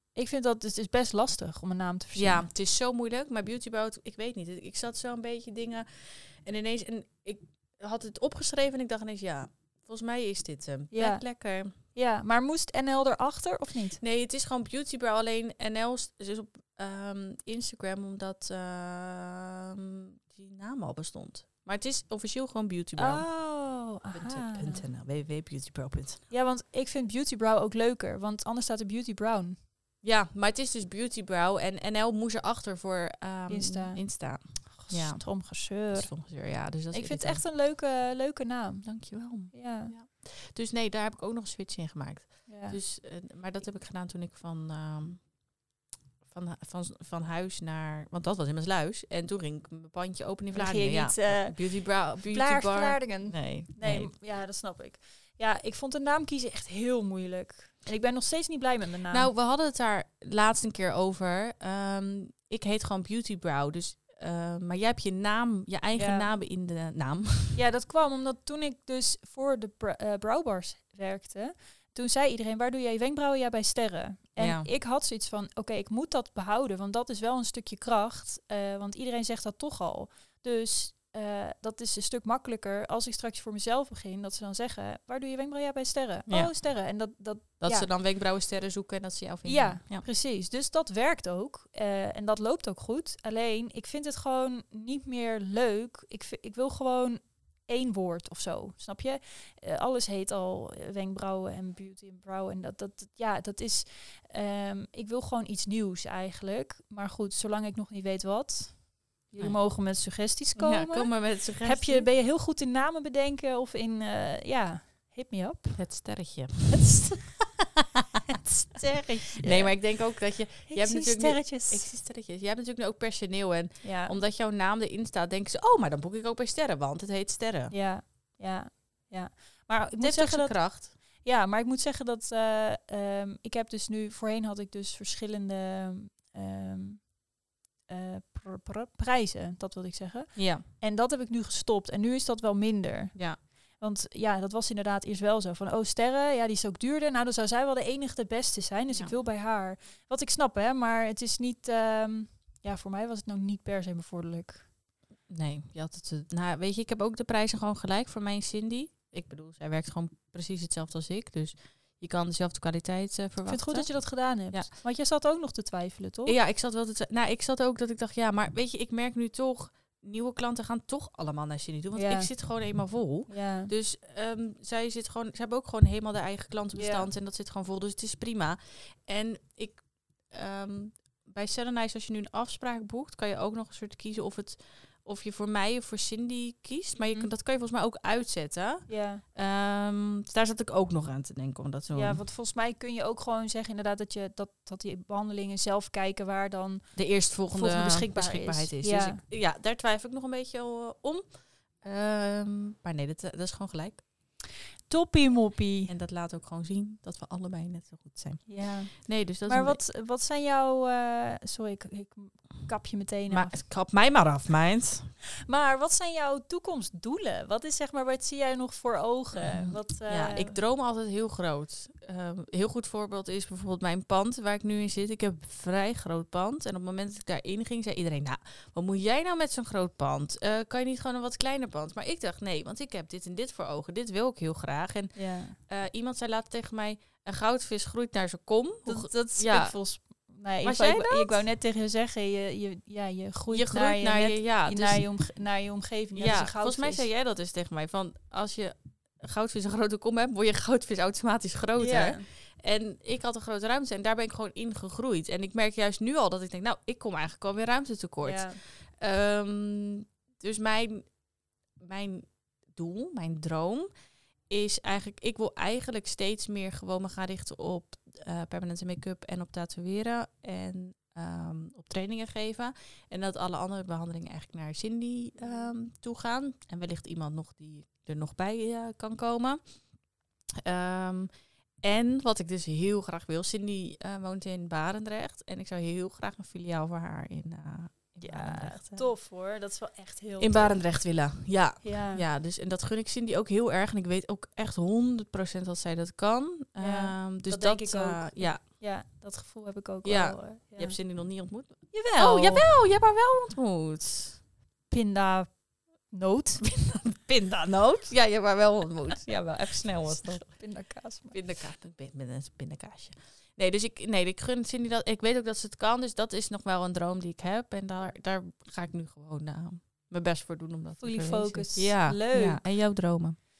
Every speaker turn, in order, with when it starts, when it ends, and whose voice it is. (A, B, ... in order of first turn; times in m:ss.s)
0:00.2-0:02.5 A
0:02.2-0:11.7 B
0:10.9-0:11.2 A
0:11.9-0:14.0 A
0:14.0-0:23.2 B
0:23.0-0:24.8 A
0:24.1-0:26.2 B
0:26.3-0:29.6 A
0:30.0-0:37.4 B
0:33.5-0:34.0 A
0:34.6-0:36.1 A
0:36.9-0:38.9 A
0:38.8-0:45.2 B
0:39.5-0:39.9 A
0:42.5-0:42.8 A
0:46.2-0:54.1 B
0:50.5-0:51.6 A
0:52.2-0:59.3 A
0:59.1-1:07.6 B
1:05.9-1:06.3 A
1:07.5-1:27.9 A
1:14.4-1:14.7 B
1:26.3-1:26.5 B
1:27.6-1:30.0 B
1:29.4-1:55.9 A
1:50.6-1:52.1 B
1:55.8-1:56.9 B
1:56.7-1:57.4 A
1:58.3-1:59.8 A
1:59.4-2:07.7 B
2:00.7-2:01.9 A
2:03.8-2:04.2 A
2:07.7-2:17.2 A
2:10.0-2:10.9 B
2:17.9-2:34.7 A
2:20.3-2:20.6 B
2:35.3-2:44.7 B
2:43.4-2:46.4 A
2:46.2-3:12.2 B
2:51.9-2:52.3 A
2:53.3-2:53.7 A
2:56.7-2:57.1 A
3:08.9-3:09.2 A
3:11.9-3:16.9 A
3:16.9-3:21.2 B
3:17.5-3:19.2 A
3:21.8-3:24.0 B
3:24.9-3:25.9 A
3:25.9-3:29.8 B
3:28.5-3:33.5 A
3:33.3-3:35.1 B
3:35.5-3:40.6 A
3:39.4-3:59.7 B
3:55.1-3:55.6 A
3:58.8-4:07.0 A
4:00.6-4:01.4 B
4:03.5-4:05.1 B
4:06.1-4:21.1 B
4:11.8-4:12.2 A
4:18.2-4:18.6 A
4:21.8-4:23.9 B
4:24.5-4:39.6 B
4:40.6-4:41.3 B
4:41.8-4:49.1 B
4:48.2-4:50.8 A
4:50.4-4:58.6 B
4:51.8-4:52.2 A
4:56.8-5:01.0 A
5:00.0-5:04.4 B
5:01.9-5:02.7 A
5:04.9-5:05.5 A
5:06.1-5:06.6 A
5:06.6-5:10.5 B
5:10.2-5:11.4 A
5:11.3-5:23.4 B
5:21.0-5:22.6 A